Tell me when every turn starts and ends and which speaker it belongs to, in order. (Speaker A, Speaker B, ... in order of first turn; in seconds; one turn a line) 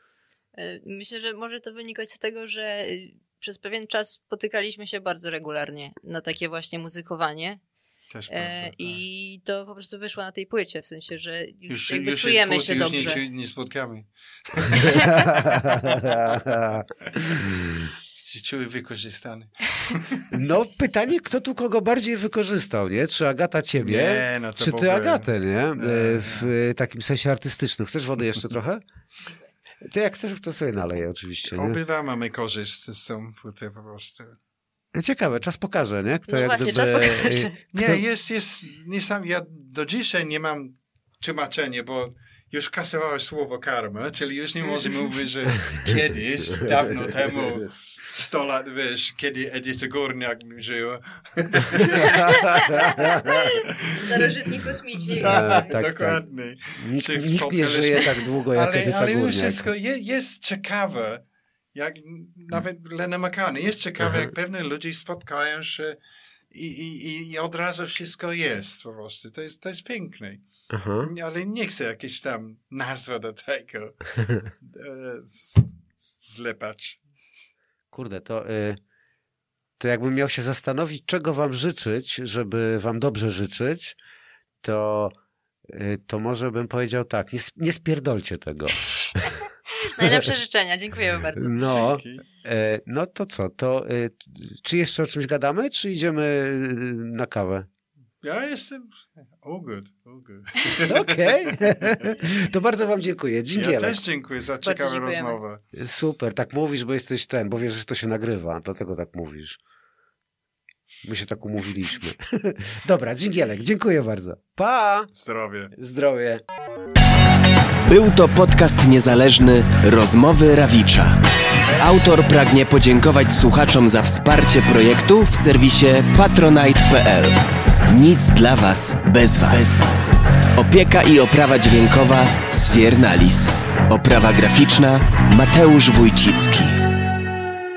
Speaker A: 0.5-7.6
Speaker B: 8.1-9.0
Speaker A: 8.3-13.2
Speaker B: 11.7-17.6
Speaker C: 15.2-17.8
Speaker B: 18.1-20.3
Speaker C: 20.3-28.8
Speaker B: 23.8-26.5
Speaker C: 29.8-31.8
Speaker B: 31.5-34.4
Speaker C: 34.9-38.0
Speaker A: 36.3-37.5
Speaker B: 37.7-54.3
Speaker C: 46.6-47.6
Speaker A: 51.9-55.8
Speaker C: 52.3-53.2
Speaker B: 55.0-61.2
Speaker C: 55.2-56.2
Speaker C: 56.8-59.7
Speaker B: 61.7-66.0
Speaker B: 66.5-70.5
Speaker C: 70.7-71.1
Speaker B: 71.0-77.0
Speaker C: 77.9-78.8
Speaker C: 79.8-84.0
Speaker C: 84.6-85.1
Speaker C: 85.7-89.3
Speaker A: 89.8-91.7
Speaker C: 91.4-97.7
Speaker B: 91.6-92.2
Speaker B: 98.2-102.2
Speaker C: 100.8-104.0
Speaker B: 103.5-105.6
Speaker A: 104.6-105.4
Speaker C: 105.7-109.6
Speaker C: 111.0-115.1
Speaker B: 115.1-115.7
Speaker C: 115.7-116.4
Speaker D: 117.8-121.2
Speaker D: 121.8-136.8